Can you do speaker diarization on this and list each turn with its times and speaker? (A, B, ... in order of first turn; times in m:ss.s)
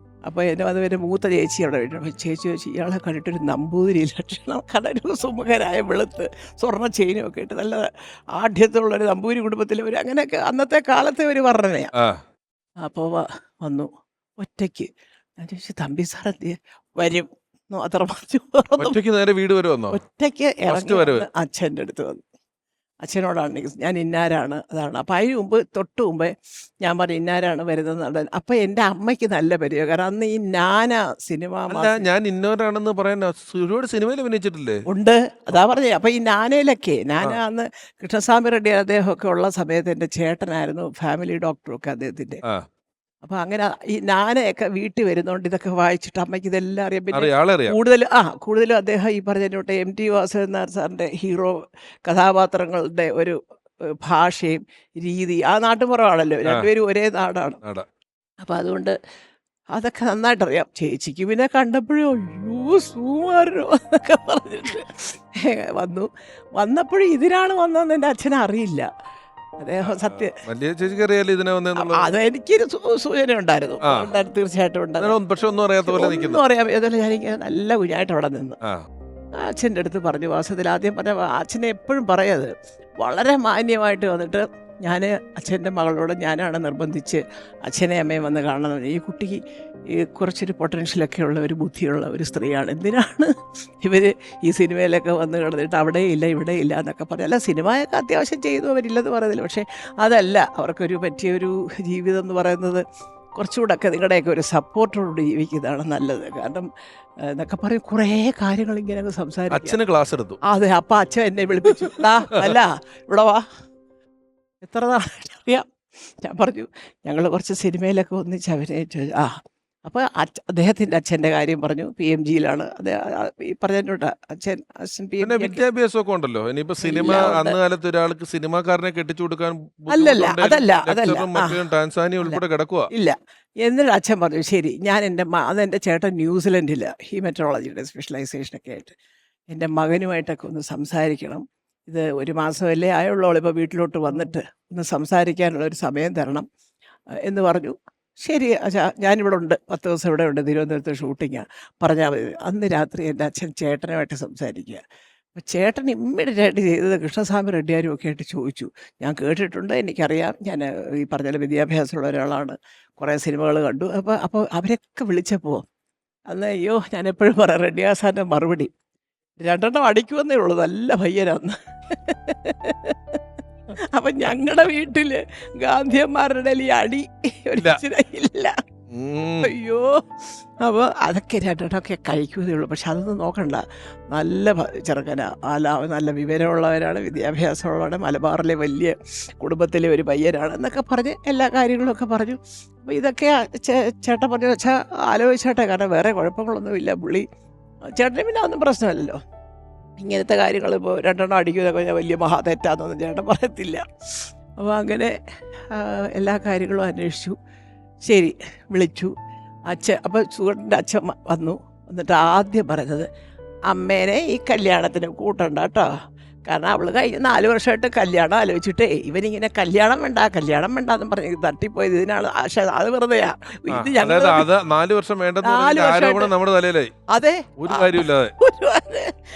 0:00.2-0:11.9 A
0:12.8-0:13.9 A
0:14.4-0:19.0 A
0:18.8-0:20.0 B
0:19.9-0:22.2 A
0:20.7-0:21.2 B
0:23.0-0:26.3 A
0:26.8-0:32.0 A
0:31.7-0:34.8 B
0:34.9-0:42.4 A
0:43.2-0:53.4 A
0:47.1-0:47.8 B
0:54.0-0:57.6 A
0:58.4-0:58.9 A
0:59.7-1:08.9 A
1:09.6-1:10.4 A
1:09.8-1:12.1 B
1:11.8-1:15.1 A
1:13.8-1:14.1 B
1:15.0-1:16.4 B
1:15.8-1:18.6 A
1:19.4-1:22.5 A
1:23.0-1:29.4 A
1:29.9-1:33.3 A
1:33.8-1:42.8 A
1:43.4-1:46.7 A
1:47.3-1:49.8 A
1:49.5-1:50.4 B
1:50.5-1:53.4 A
1:54.6-1:55.7 A
1:56.2-1:59.3 A
1:59.8-2:05.6 A
2:05.2-2:12.9 B
2:06.8-2:07.6 A
2:09.9-2:11.6 A
2:12.9-2:18.9 A
2:19.5-2:26.4 A
2:27.2-2:34.8 A
2:35.3-2:45.6 A
2:46.3-2:48.7 A
2:49.4-2:53.2 A
2:53.9-2:58.5 A
2:58.9-2:59.5 B
2:59.4-3:00.0 A
3:00.6-3:17.2 A
3:17.9-3:19.2 A
3:20.0-3:25.1 A
3:25.7-3:27.4 A
3:28.0-3:29.1 A
3:29.7-3:33.1 A
3:33.7-3:35.9 A
3:36.5-3:44.4 A
3:43.7-3:46.9 B
3:45.4-3:46.3 A
3:47.1-3:49.1 A
3:47.6-3:48.3 B